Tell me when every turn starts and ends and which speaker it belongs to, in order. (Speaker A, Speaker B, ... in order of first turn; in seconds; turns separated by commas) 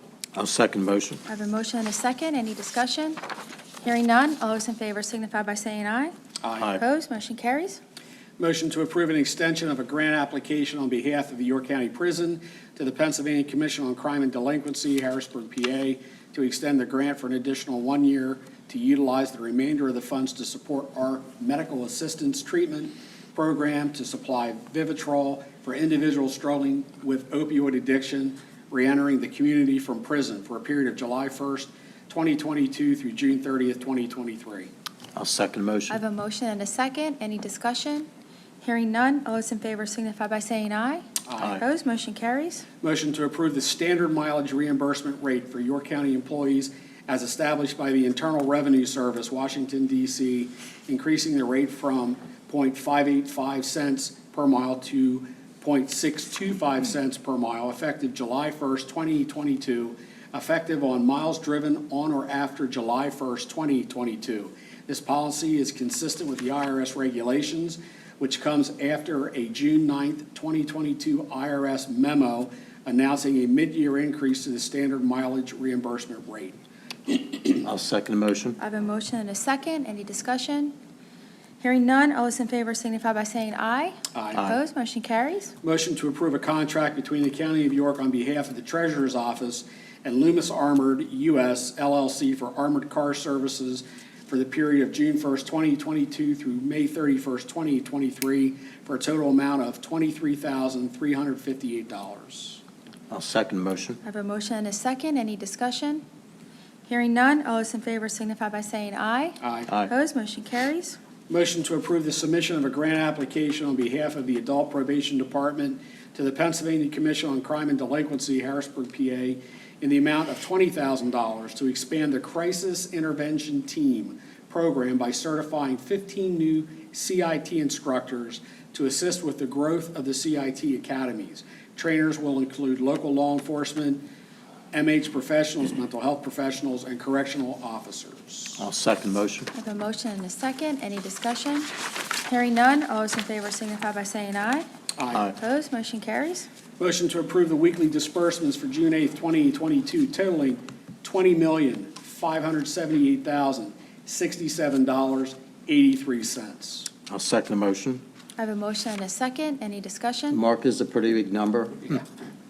Speaker A: 0.3-1.2, Speaker B: 1.2-3.2, Speaker B: 3.8-6.1, Speaker C: 6.4-6.7, Speaker B: 6.7-7.8, Speaker C: 8.4-34.7, Speaker A: 35.1-36.0, Speaker B: 35.9-38.1, Speaker B: 38.6-42.6, Speaker C: 41.2-41.6, Speaker C: 42.8-76.6, Speaker A: 77.5-78.6, Speaker B: 78.6-80.7, Speaker B: 81.6-85.5, Speaker C: 84.1-84.4, Speaker C: 85.6-102.6, Speaker A: 103.1-104.0, Speaker B: 104.0-106.0, Speaker B: 106.9-111.0, Speaker C: 109.4-109.7, Speaker C: 111.3-134.0, Speaker C: 134.7-138.6, Speaker A: 138.6-139.5, Speaker B: 139.5-144.7, Speaker C: 145.0-145.2, Speaker B: 145.3-146.5, Speaker C: 146.8-156.9, Speaker A: 157.1-158.0, Speaker B: 158.4-160.4, Speaker A: 160.3-162.0